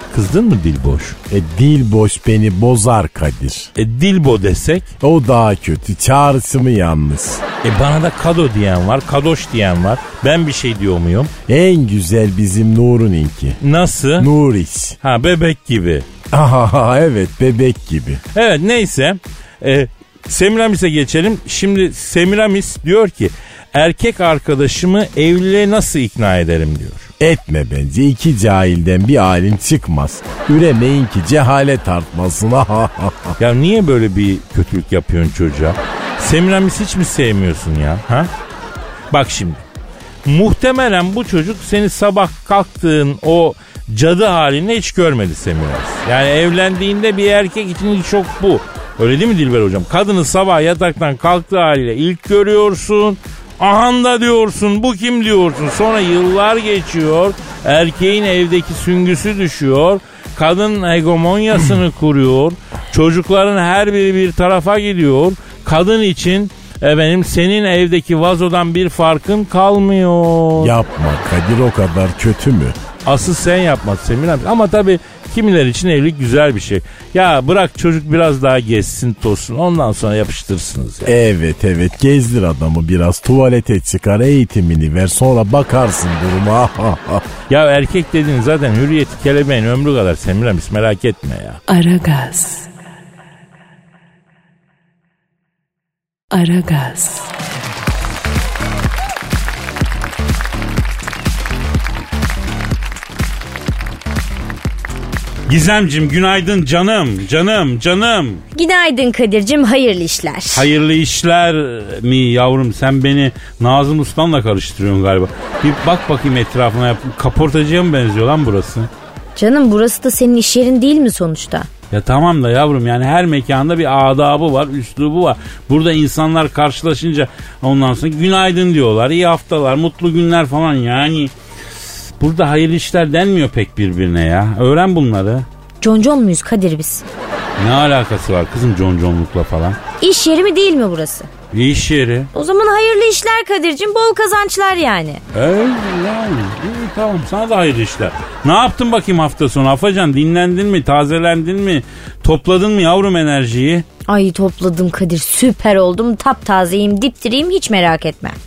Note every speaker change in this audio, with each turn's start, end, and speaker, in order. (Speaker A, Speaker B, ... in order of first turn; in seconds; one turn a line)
Speaker A: 0.1-1.2
Speaker B: 1.3-3.7
Speaker A: 3.8-4.9
Speaker B: 5.0-7.4
Speaker A: 7.6-11.3
Speaker B: 11.5-13.6
Speaker A: 13.6-14.3
Speaker B: 14.2-15.0
Speaker A: 15.0-16.1
Speaker B: 16.3-18.2
Speaker A: 18.3-27.1
Speaker B: 27.2-33.4
Speaker A: 33.4-38.3
Speaker A: 39.1-39.6
Speaker A: 40.2-70.7
Speaker B: 70.6-72.8
Speaker A: 73.0-81.1
Speaker B: 81.0-87.2
Speaker A: 87.5-91.6
Speaker C: 91.7-92.7
Speaker C: 96.3-97.3
Speaker D: 105.5-108.4
Speaker E: 108.5-110.7
Speaker D: 110.5-118.9
Speaker E: 119.3-121.7
Speaker D: 121.9-135.5
Speaker E: 135.8-137.0
Speaker D: 137.6-139.8
Speaker E: 140.0-141.3
Speaker D: 141.5-142.3
Speaker E: 142.3-145.2
Speaker D: 145.3-153.8
Speaker E: 154.1-158.4